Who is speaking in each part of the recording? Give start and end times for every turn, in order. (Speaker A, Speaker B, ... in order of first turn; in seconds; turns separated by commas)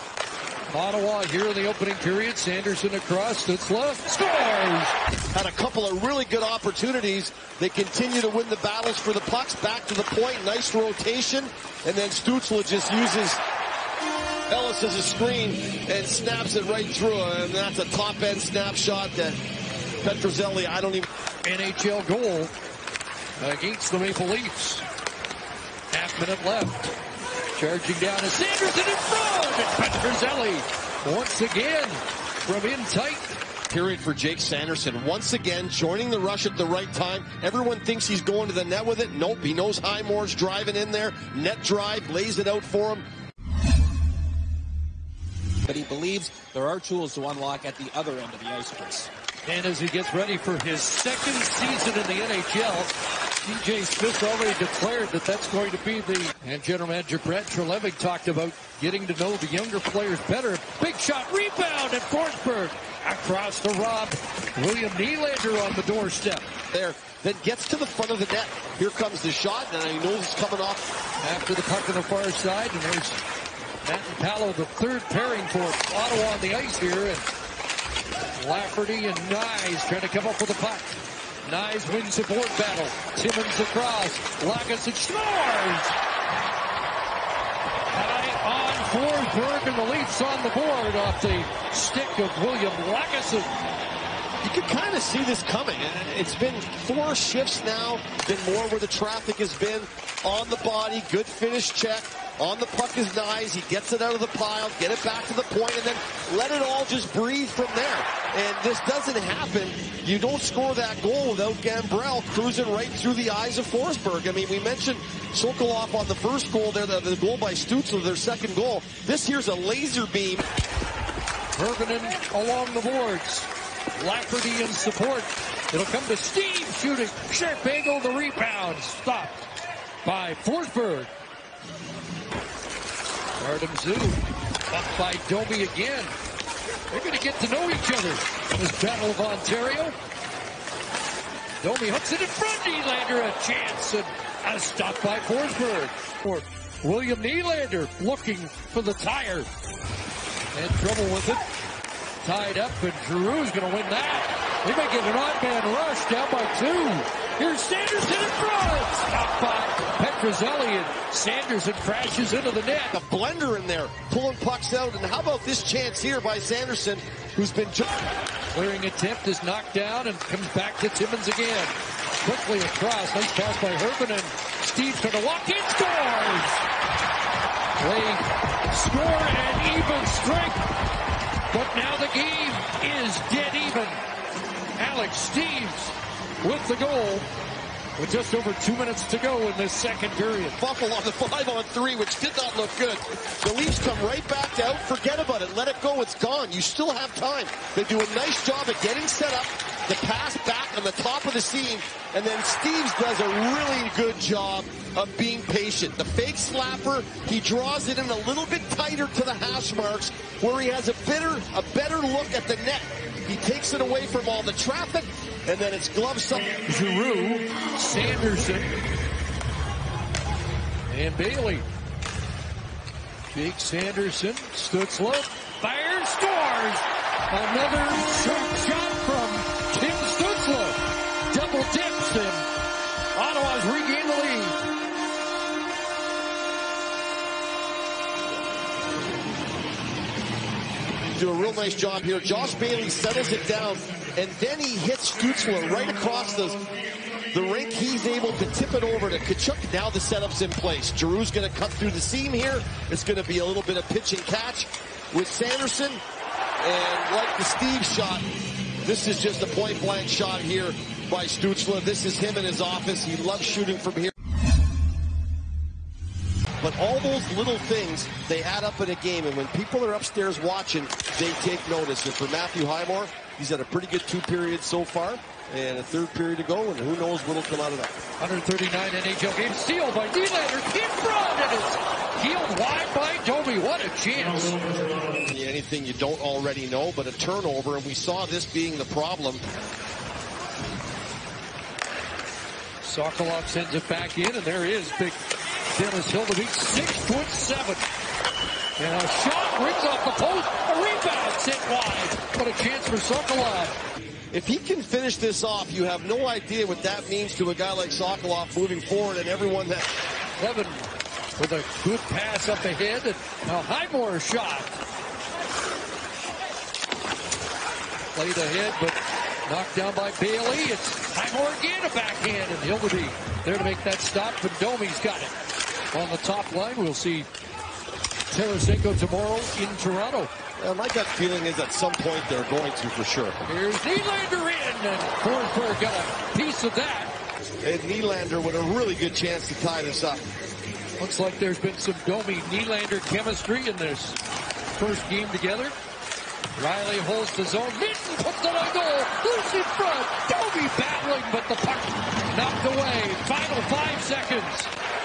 Speaker A: 0.7-5.0, Speaker B: 5.3-13.4, Speaker B: 14.5-19.4, Speaker B: 20.0-21.1, Speaker A: 21.4-22.5, Speaker A: 23.4-24.9, Speaker A: 25.9-27.0, Speaker A: 27.6-33.4, Speaker B: 33.7-43.0, Speaker C: 45.6-49.1, Speaker A: 49.5-66.5, Speaker B: 66.7-70.8, Speaker A: 71.2-73.2, Speaker A: 73.8-77.3, Speaker A: 78.4-86.0, Speaker A: 87.9-93.5, Speaker B: 94.4-120.5, Speaker A: 121.5-129.4, Speaker A: 130.0-131.1, Speaker A: 133.4-136.2, Speaker A: 136.9-139.9, Speaker A: 141.6-149.5, Speaker A: 150.5-151.4, Speaker A: 152.2-162.9, Speaker B: 162.9-167.9, Speaker A: 168.5-176.7, Speaker A: 177.8-180.7, Speaker A: 181.5-184.0, Speaker A: 184.8-187.3, Speaker A: 188.0-190.6, Speaker B: 190.6-216.6, Speaker A: 216.7-218.8, Speaker A: 220.9-221.7, Speaker A: 223.3-232.5, Speaker A: 233.2-234.6, Speaker B: 241.1-246.6, Speaker B: 247.3-256.0, Speaker B: 256.6-258.3, Speaker B: 258.8-264.1, Speaker B: 266.6-278.0, Speaker A: 278.2-284.7, Speaker B: 285.3-289.4, Speaker A: 292.8-295.2, Speaker A: 295.7-297.9, Speaker A: 298.8-303.8, Speaker B: 304.3-309.9, Speaker A: 310.4-314.8, Speaker A: 318.1-325.4, Speaker A: 325.9-327.3, Speaker A: 328.3-330.3, Speaker B: 330.6-333.4, Speaker A: 333.4-337.1, Speaker B: 337.6-340.3, Speaker A: 341.0-344.2, Speaker A: 344.8-345.8, Speaker A: 346.6-354.7